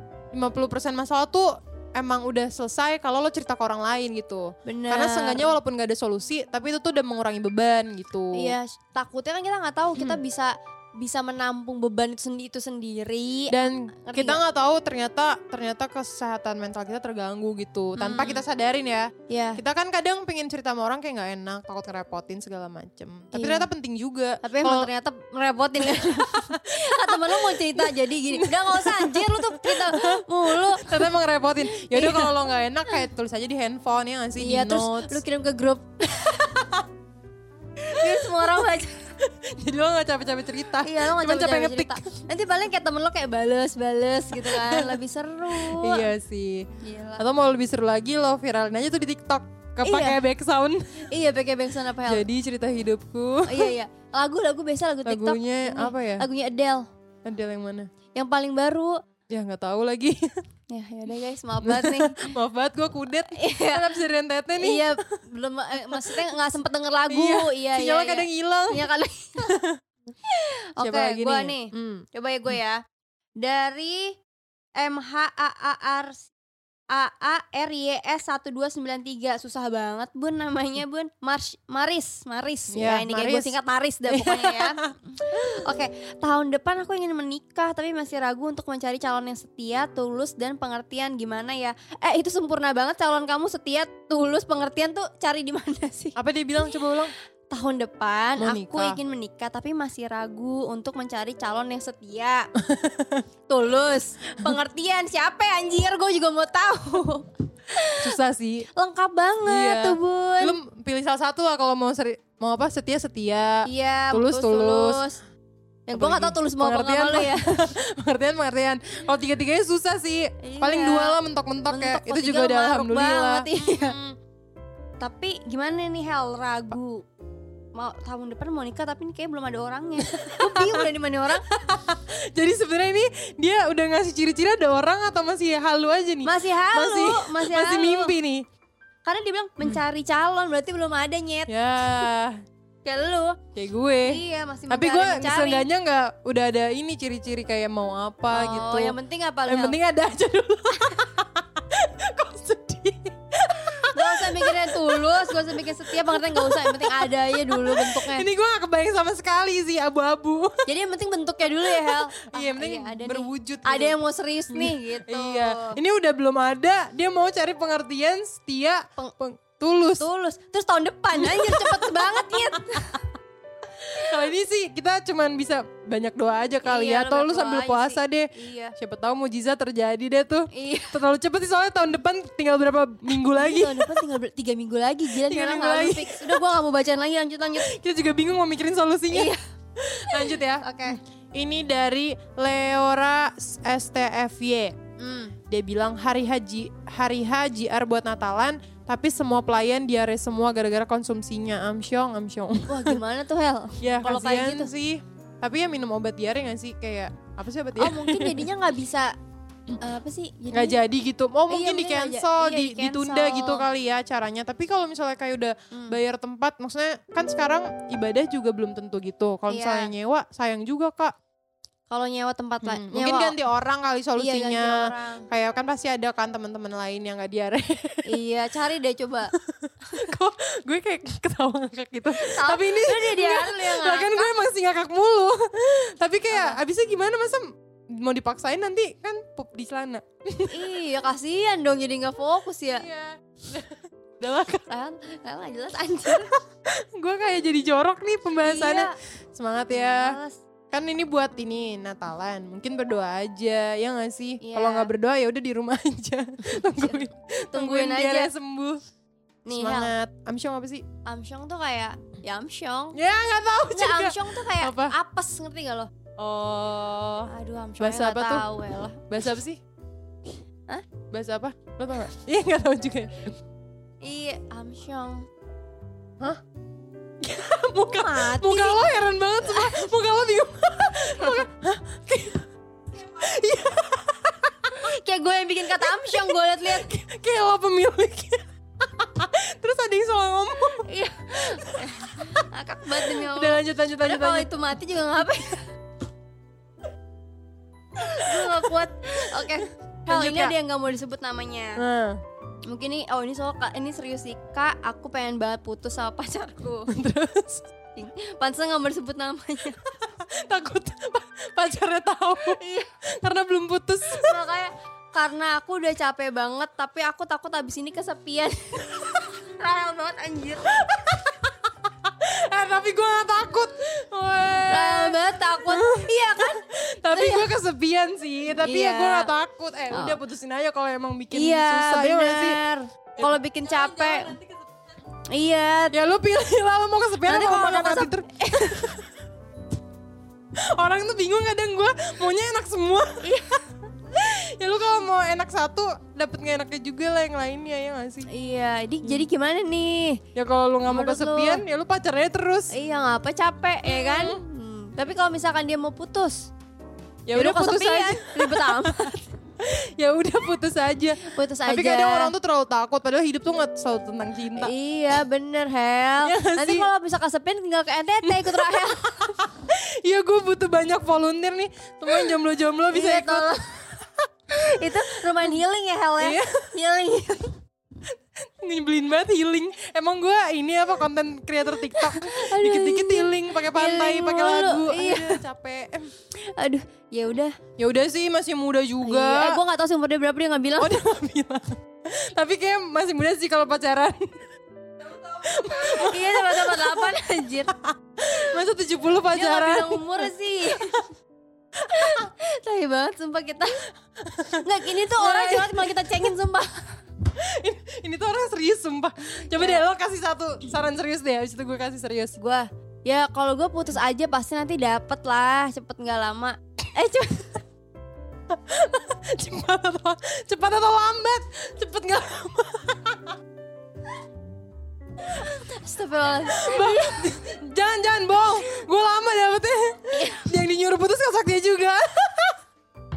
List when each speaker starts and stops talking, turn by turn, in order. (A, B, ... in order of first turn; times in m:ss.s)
0:00.3-0:08.6 A
0:04.6-0:05.6 B
0:08.3-0:14.4 B
0:10.0-0:10.2 A
0:13.5-0:24.9 A
0:18.0-0:18.4 B
0:19.3-0:19.6 B
0:23.3-0:23.7 B
0:24.4-0:31.0 B
0:25.8-0:35.2 A
0:31.7-0:32.5 B
0:34.4-0:36.5 B
0:36.3-0:36.8 A
0:37.9-0:39.0 B
0:38.0-0:38.6 A
0:39.2-0:42.1 A
0:40.8-0:46.1 B
0:44.3-0:45.0 A
0:45.5-0:46.7 A
0:46.8-0:47.2 B
0:47.2-0:51.1 A
0:49.8-0:50.2 B
0:51.1-0:52.2 B
0:52.0-0:53.7 A
0:53.5-0:56.9 B
0:55.0-0:56.3 A
0:57.2-0:57.9 A
0:58.1-0:59.0 B
0:59.3-1:00.3 A
1:00.7-1:02.3 B
1:01.6-1:05.0 A
1:03.3-1:04.0 B
1:04.5-1:09.6 B
1:05.9-1:06.3 A
1:07.1-1:08.9 A
1:09.4-1:09.8 A
1:10.2-1:12.8 B
1:10.8-1:12.6 A
1:13.4-1:14.2 B
1:14.8-1:16.3 B
1:16.9-1:36.2 B
1:22.7-1:23.6 A
1:24.1-1:24.9 A
1:36.2-1:37.1 A
1:37.5-1:42.5 B
1:38.4-1:39.0 A
1:42.6-1:43.2 A
1:43.5-1:48.2 B
1:48.0-1:48.7 A
1:48.7-1:50.6 B
1:49.4-1:55.0 A
1:53.6-1:55.2 B
1:55.9-1:57.7 B
1:55.9-2:04.2 A
2:00.4-2:01.2 B
2:01.7-2:04.0 B
2:05.0-2:07.0 B
2:07.7-2:11.4 B
2:10.0-2:18.4 A
2:16.2-2:18.1 B
2:19.0-2:22.0 B
2:21.5-2:22.3 A
2:22.8-2:23.4 B
2:23.5-2:40.6 A
2:24.0-2:25.7 B
2:28.3-2:29.8 B
2:33.9-2:38.3 B
2:40.6-2:45.8 B
2:41.6-2:44.0 A
2:44.5-2:50.1 A
2:50.0-2:53.0 B
2:51.1-2:53.0 A
2:53.9-3:04.0 A
2:56.6-2:58.7 B
3:00.5-3:01.0 B
3:03.2-3:07.7 B
3:05.1-3:06.4 A
3:07.6-3:14.7 A
3:09.1-3:09.4 B
3:10.1-3:11.0 B
3:15.0-3:15.3 B
3:15.5-3:23.0 A
3:22.7-3:24.7 B
3:23.8-3:28.5 A
3:27.8-3:29.1 B
3:29.8-3:30.8 B
3:30.5-3:41.1 A
3:31.5-3:33.6 B
3:35.7-3:36.0 B
3:39.5-3:39.9 B
3:41.9-3:43.4 B
3:42.6-3:48.2 A
3:44.2-3:45.2 B
3:48.0-3:49.3 B
3:49.3-4:00.7 A
3:52.1-3:54.3 B
3:56.3-3:56.6 B
4:00.5-4:02.9 B
4:02.8-4:04.6 A
4:04.7-4:06.3 B
4:06.3-4:10.2 A
4:08.4-4:08.9 B
4:09.7-4:10.4 B
4:10.7-4:18.8 A
4:14.4-4:14.9 B
4:16.4-4:18.3 B
4:19.4-4:19.9 B
4:19.5-4:20.8 A
4:21.0-4:23.0 B
4:22.9-4:24.9 A
4:23.7-4:25.9 B
4:26.2-4:28.5 A
4:27.3-4:29.0 B
4:29.1-4:29.6 A
4:31.1-4:33.3 A
4:34.0-4:35.2 B
4:37.2-4:42.4 A
4:37.9-4:39.9 B
4:41.1-4:41.4 B
4:43.0-4:44.7 A
4:44.8-4:46.9 B
4:45.8-4:50.8 A
4:50.8-4:55.6 B
4:51.4-4:52.3 A
4:52.9-4:54.5 A
4:58.0-5:01.8 B
4:58.2-5:00.5 A
5:01.8-5:02.2 A
5:02.6-5:06.9 B
5:06.9-5:07.7 A
5:08.0-5:09.8 B
5:10.0-5:12.6 A
5:12.4-5:12.9 B
5:13.2-5:14.4 A
5:14.1-5:20.8 B
5:20.8-5:32.6 A
5:24.7-5:27.6 B
5:28.5-5:29.3 B
5:29.9-5:30.2 B
5:31.3-5:34.4 B
5:33.2-5:34.4 A
5:35.3-5:36.0 B
5:35.9-5:39.0 A
5:37.2-5:38.9 B
5:40.7-5:43.4 A
5:43.2-5:43.6 B
5:44.1-5:48.3 A
5:48.3-5:50.2 B
5:50.3-5:52.7 A
5:50.8-5:51.6 B
5:52.7-5:56.5 B
5:53.8-5:54.4 A
5:57.3-5:59.0 A
5:57.3-5:59.3 B
5:59.6-6:04.7 A
6:01.2-6:02.3 B
6:04.6-6:09.3 B
6:06.2-6:06.9 A
6:08.2-6:14.1 A
6:12.9-6:13.7 B
6:14.5-6:17.5 B
6:14.8-6:15.6 A
6:16.2-6:16.7 A
6:18.6-6:26.1 A
6:22.0-6:25.4 B
6:26.5-6:27.5 B
6:27.8-6:29.6 A
6:29.0-6:31.0 B
6:30.8-6:34.4 A
6:35.1-6:41.0 A
6:35.6-6:37.7 B
6:39.3-6:41.0 B
6:41.8-6:43.8 B
6:44.2-6:46.3 A
6:44.6-6:46.9 B
6:47.3-6:52.3 A
6:49.5-6:49.8 B
6:52.4-6:57.6 B
6:58.5-7:03.3 A
7:05.3-7:07.2 B
7:06.4-7:12.6 A
7:10.1-7:10.5 B